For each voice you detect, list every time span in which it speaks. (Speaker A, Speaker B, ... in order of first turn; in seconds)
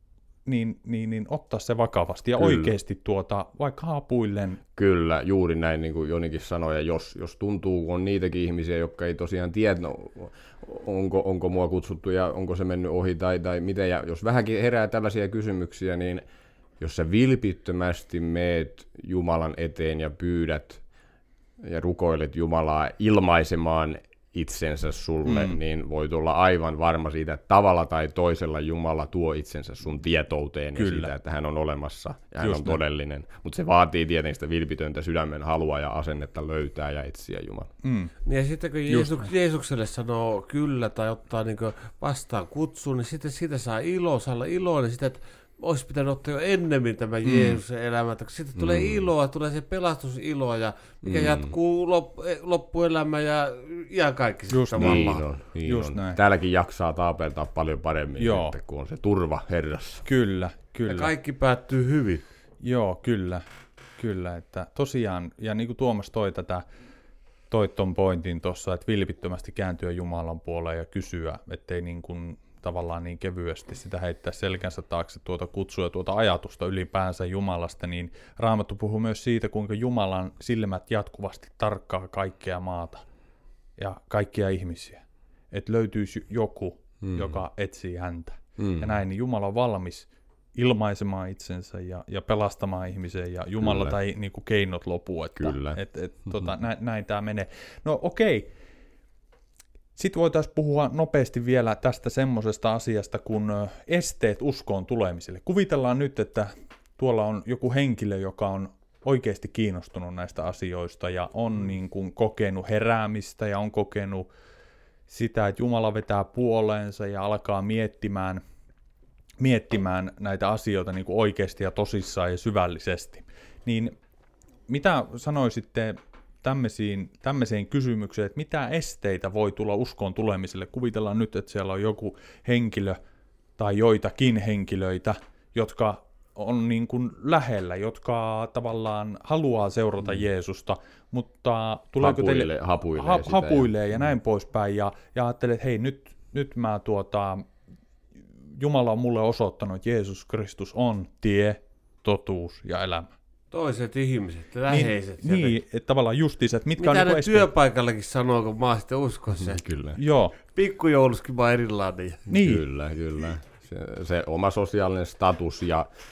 Speaker A: 0.5-4.6, 25.3-25.6, 30.8-31.1, 32.4-32.8, 37.8-38.1, 38.9-39.2, 47.2-47.6, 54.5-56.2, 58.2-58.5, 60.0-61.1, 62.6-63.4, 64.0-66.6, 67.5-83.0, 83.8-98.5, 100.0-114.3, 115.1-118.4, 119.4-123.9, 124.7-133.0, 133.6-147.4, 148.6-153.1, 154.7-157.5, 159.9-160.3, 162.3-162.6
Speaker B: 2.4-2.7, 4.8-16.2, 16.8-20.8, 21.6-37.7, 48.5-49.1, 51.0-51.5, 54.7-60.0, 87.0-87.4, 88.6-89.0, 93.6-93.9, 95.4-95.8, 142.0-143.7, 159.4-160.0, 162.3-165.9
Speaker C: 38.2-55.2, 60.8-62.2, 153.5-155.5, 156.8-159.6, 160.5-162.2